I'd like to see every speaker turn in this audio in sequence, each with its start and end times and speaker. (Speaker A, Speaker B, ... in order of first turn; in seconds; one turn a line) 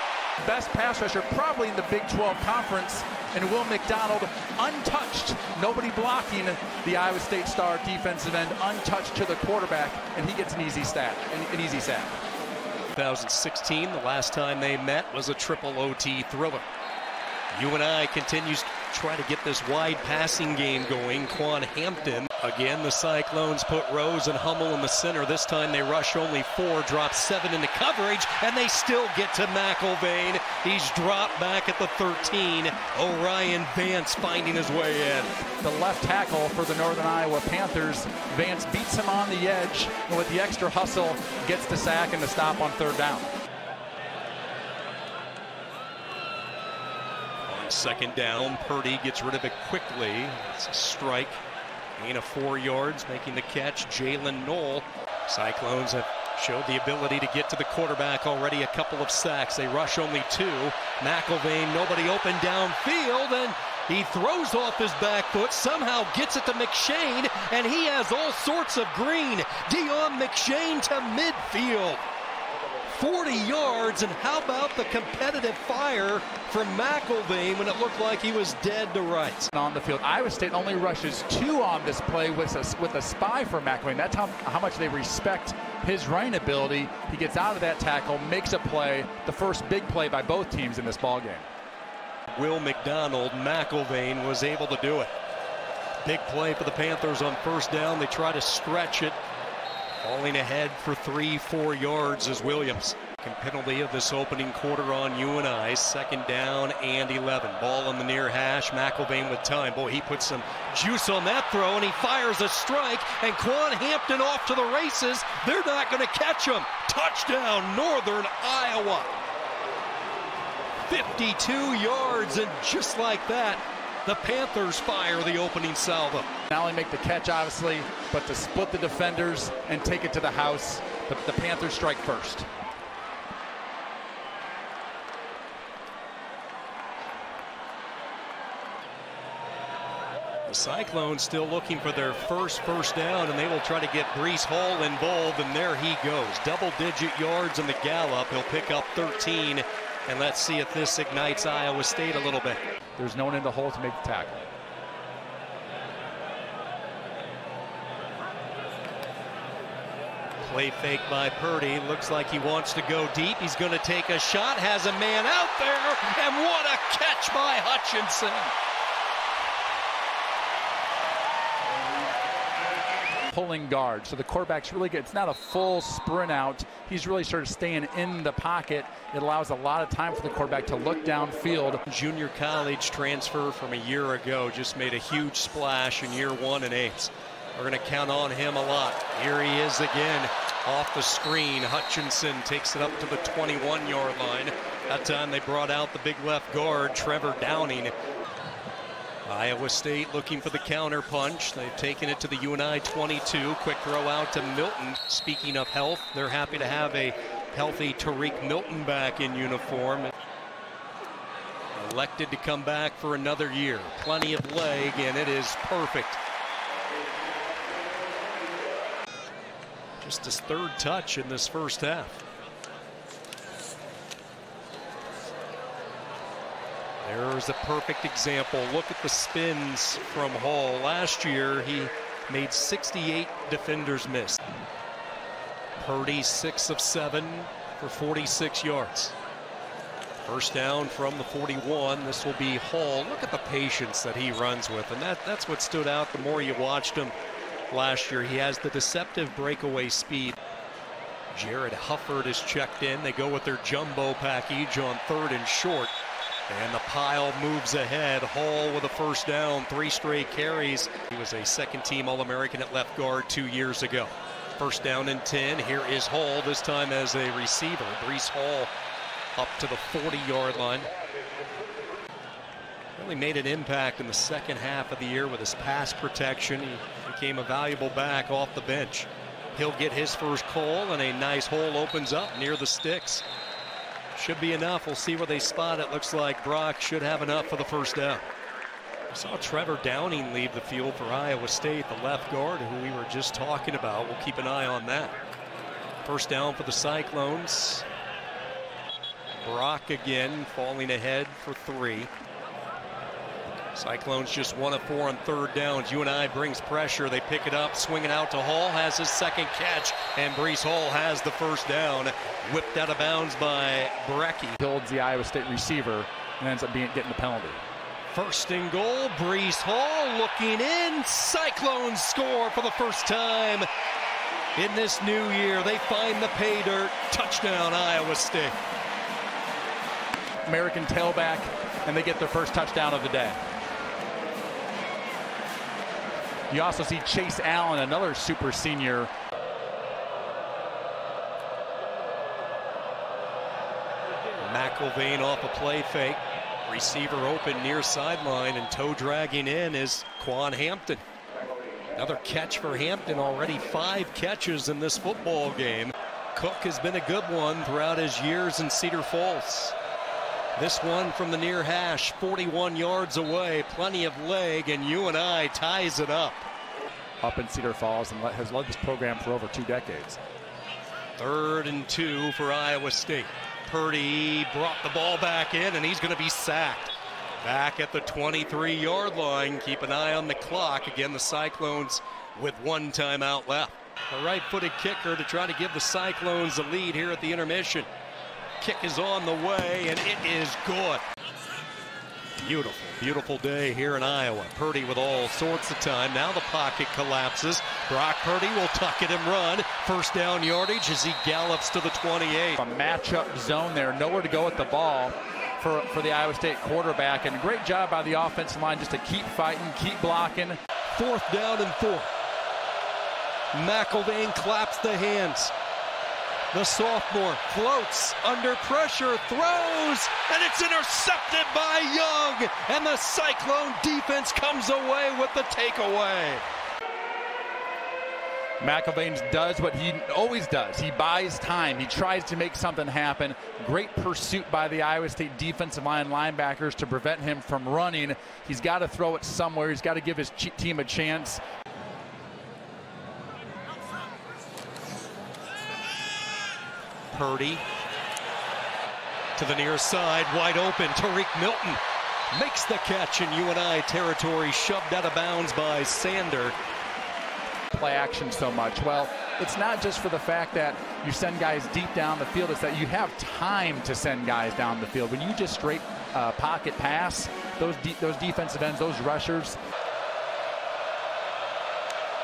Speaker A: 0.4-12.2
Speaker B: 12.9-16.7
Speaker B: 17.5-35.3
Speaker A: 35.6-43.3
Speaker B: 47.5-51.4
Speaker B: 52.0-72.0
Speaker B: 72.9-79.5
Speaker A: 79.5-91.5
Speaker B: 92.3-95.1
Speaker B: 96.0-99.2
Speaker B: 100.0-119.2
Speaker B: 120.9-126.3
Speaker A: 126.5-132.5
Speaker B: 140.5-152.6
Speaker A: 153.0-154.5
Speaker B: 160.4-168.5
Speaker A: 173.3-181.8
Speaker B: 181.9-197.9
Speaker B: 199.3-210.1
Speaker B: 211.8-216.2
Speaker B: 220.0-222.2
Speaker B: 227.0-234.4
Speaker B: 235.8-239.2
Speaker B: 240.2-247.1
Speaker B: 247.7-250.4
Speaker B: 251.3-255.9
Speaker B: 256.5-268.7
Speaker B: 269.4-270.9
Speaker B: 273.0-283.2
Speaker B: 284.1-288.2
Speaker B: 289.1-295.1
Speaker B: 296.1-297.9
Speaker B: 299.4-302.1
Speaker B: 303.8-314.6
Speaker A: 314.6-317.6
Speaker B: 318.1-323.7
Speaker B: 324.6-328.6
Speaker A: 330.5-333.4
Speaker A: 336.5-339.1
Speaker B: 344.4-351.0
Speaker B: 352.0-359.8
Speaker B: 360.6-366.5
Speaker A: 367.2-370.2
Speaker B: 371.2-387.9
Speaker B: 388.6-391.0
Speaker B: 392.4-402.6
Speaker A: 402.6-410.6
Speaker B: 410.9-412.1
Speaker B: 413.5-415.5
Speaker B: 416.5-426.4
Speaker A: 428.6-441.4
Speaker B: 447.1-447.6
Speaker B: 449.4-451.8
Speaker B: 452.3-456.6
Speaker A: 457.7-469.6